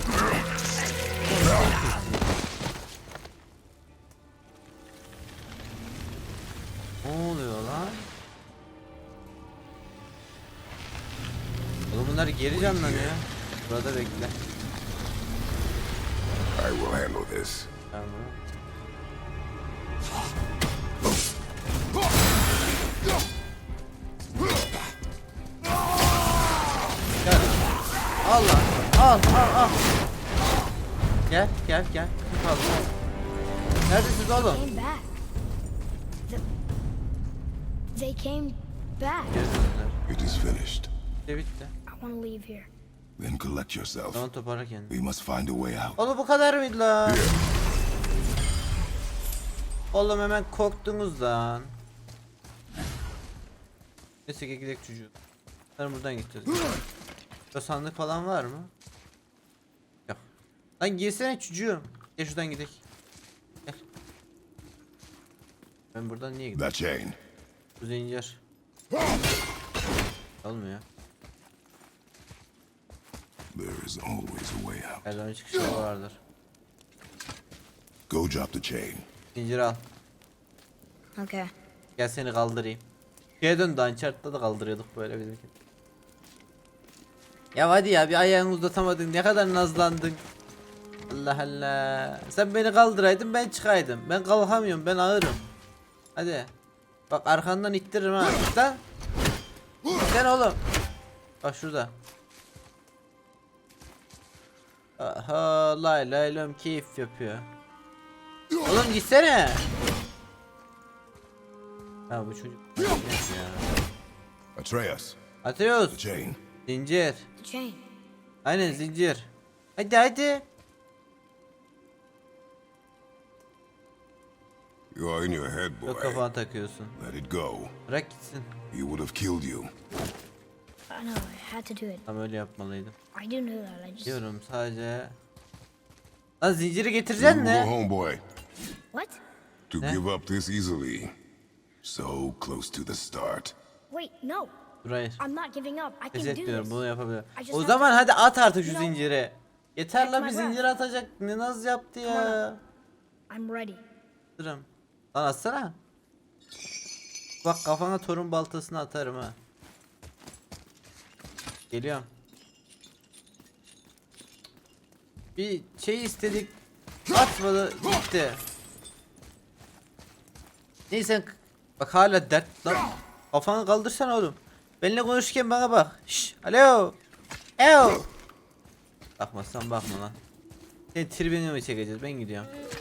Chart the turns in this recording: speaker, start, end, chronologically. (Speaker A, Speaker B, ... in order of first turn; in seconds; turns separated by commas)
Speaker A: 1.3-2.3, Speaker A: 7.0-8.1, Speaker A: 11.9-14.4, Speaker B: 12.5-13.2, Speaker B: 16.5-17.7, Speaker A: 17.9-18.4, Speaker A: 27.2-27.6, Speaker A: 28.2-29.8, Speaker A: 31.3-32.9, Speaker A: 33.9-34.6, Speaker C: 34.4-35.1, Speaker C: 37.9-39.4, Speaker A: 39.3-40.0, Speaker B: 40.1-40.9, Speaker A: 41.3-41.7, Speaker C: 41.9-42.7, Speaker B: 43.2-44.2, Speaker A: 44.1-44.9, Speaker B: 44.9-46.0, Speaker A: 46.0-47.2, Speaker B: 47.0-47.4, Speaker A: 49.9-51.7, Speaker A: 54.2-55.1, Speaker A: 55.8-56.8, Speaker A: 57.5-58.7, Speaker A: 60.8-62.8, Speaker A: 65.9-66.7, Speaker B: 66.5-67.2, Speaker A: 67.8-68.4, Speaker A: 70.4-70.8, Speaker B: 73.5-75.1, Speaker A: 75.0-76.2, Speaker B: 78.1-79.0, Speaker A: 79.3-79.8, Speaker C: 81.2-81.5, Speaker A: 82.0-82.8, Speaker A: 83.4-85.5, Speaker A: 87.5-90.2, Speaker A: 91.1-95.4, Speaker A: 96.2-96.5, Speaker A: 97.1-98.8, Speaker A: 99.9-100.6, Speaker A: 101.4-101.9, Speaker A: 105.0-107.5, Speaker A: 108.6-109.6, Speaker A: 112.1-113.8, Speaker B: 114.5-115.2, Speaker A: 115.4-116.0, Speaker B: 115.9-116.4, Speaker A: 116.6-117.2, Speaker C: 117.4-117.8, Speaker A: 118.4-120.4, Speaker B: 124.9-126.2, Speaker A: 125.8-127.0, Speaker B: 127.0-127.7, Speaker A: 127.9-128.5, Speaker B: 128.7-129.7, Speaker C: 130.9-132.0, Speaker A: 132.1-132.9, Speaker C: 133.1-134.2, Speaker A: 134.0-135.1, Speaker A: 136.4-137.7, Speaker B: 137.2-138.2, Speaker C: 138.9-139.2, Speaker B: 139.7-141.1, Speaker B: 141.8-143.5, Speaker C: 143.9-144.5, Speaker A: 144.8-145.2, Speaker C: 145.2-146.8, Speaker A: 146.1-152.6, Speaker C: 147.4-148.0, Speaker C: 148.6-148.9, Speaker C: 149.9-150.6, Speaker C: 152.0-152.4, Speaker C: 153.3-153.8, Speaker A: 154.4-155.8, Speaker A: 157.4-159.3, Speaker A: 161.7-162.1, Speaker A: 165.3-166.5, Speaker A: 167.1-168.4, Speaker A: 170.9-176.9, Speaker A: 177.6-178.1, Speaker A: 179.2-180.2, Speaker A: 180.9-182.5